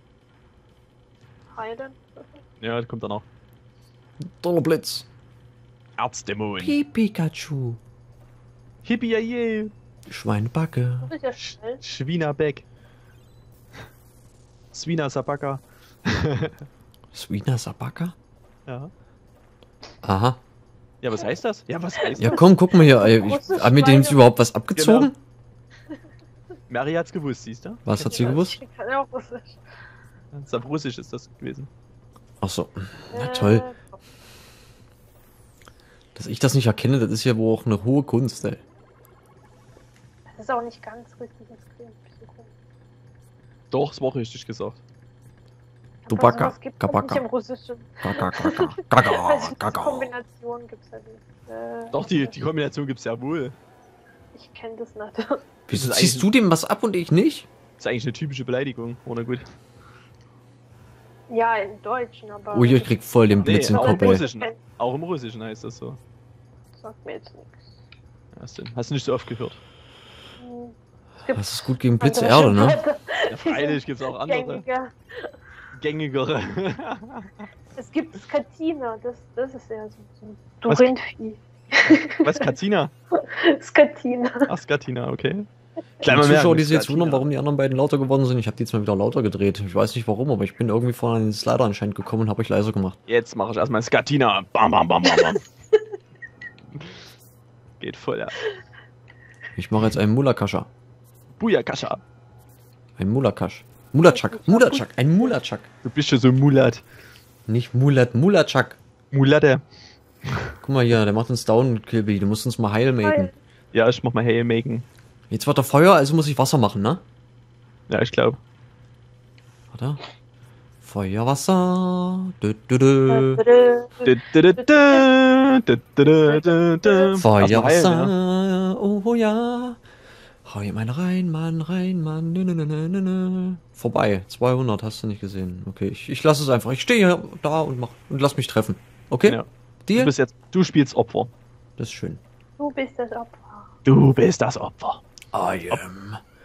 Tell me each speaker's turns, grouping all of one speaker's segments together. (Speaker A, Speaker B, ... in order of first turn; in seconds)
Speaker A: 1.5-2.4, 11.0-11.8, 22.0-24.3, 28.0-29.6, 33.1-34.0, 40.4-42.5, 46.1-52.4, 54.3-55.4, 61.3-64.6, 66.8-67.6, 70.4-75.3, 77.8-82.5, 83.2-84.5, 95.1-95.8, 104.1-105.4, 113.0-113.3, 123.1-125.1, 126.3-127.2, 142.6-143.7
Speaker B: 2.6-3.2, 6.0-6.8, 8.8-9.7, 11.4-12.7, 14.7-16.6, 21.0-22.5, 24.8-25.1, 26.7-28.4, 30.3-31.7, 43.7-44.8, 51.9-53.5, 55.7-56.3, 57.8-59.5, 63.4-66.0, 68.4-69.6, 73.3-74.7, 75.8-77.5, 81.9-82.9, 84.5-85.5, 86.0-87.3, 93.1-95.4, 97.8-98.3, 101.4-102.0, 105.8-106.8, 109.1-109.6, 113.7-114.9, 117.9-118.4, 124.0-128.1, 139.3-141.3, 143.9-145.0
Speaker C: 4.3-5.1, 6.6-7.8, 10.1-11.1, 17.1-18.1, 20.0-20.4, 22.2-25.2, 27.9-28.6, 32.4-33.7, 36.1-38.6, 46.1-47.2, 48.0-50.1, 55.7-57.5, 62.5-64.2, 71.3-72.8, 86.0-93.0, 99.6-100.7, 103.0-105.7, 107.5-108.8, 110.6-113.3, 115.3-117.0, 119.7-120.0, 120.8-123.4, 127.2-129.8, 130.4-140.1, 141.8-142.2, 145.3-146.2